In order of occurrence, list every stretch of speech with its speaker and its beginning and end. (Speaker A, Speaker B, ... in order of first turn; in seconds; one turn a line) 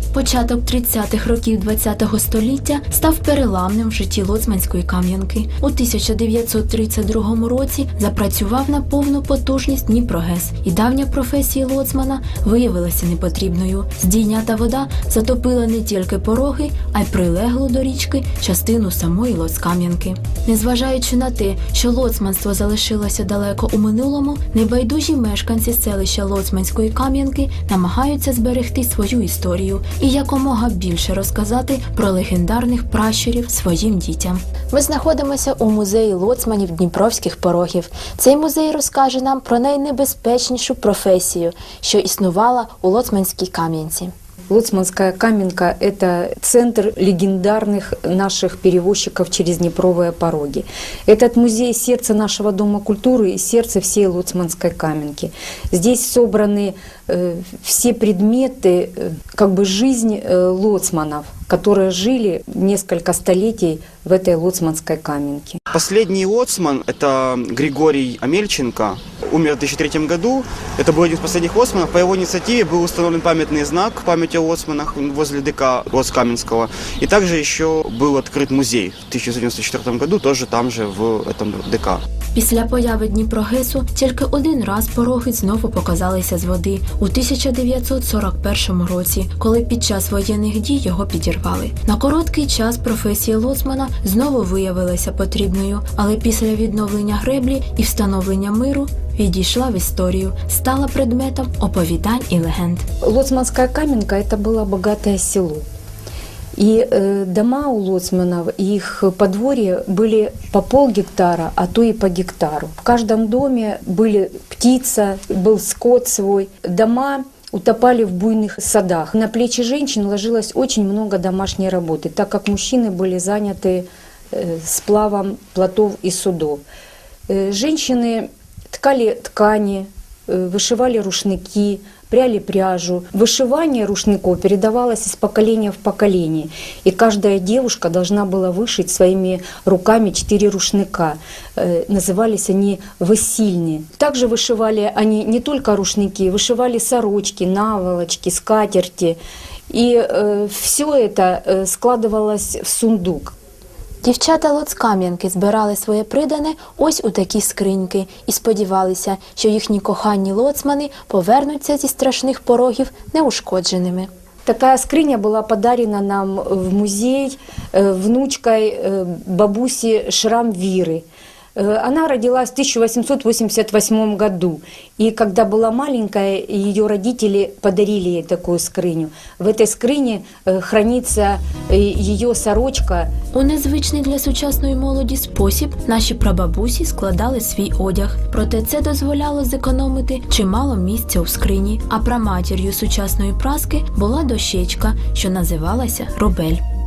Speaker A: 0.1-44.1
Speaker B: 44.5-65.6
Speaker C: 65.7-82.0
Speaker A: 82.3-102.9
Speaker B: 103.0-105.7
Speaker B: 106.6-126.6
Speaker B: 127.3-149.2
Speaker B: 149.7-153.3
Speaker A: 154.0-164.1
Speaker B: 164.5-171.1
Speaker B: 171.6-183.1
Speaker A: 183.3-196.6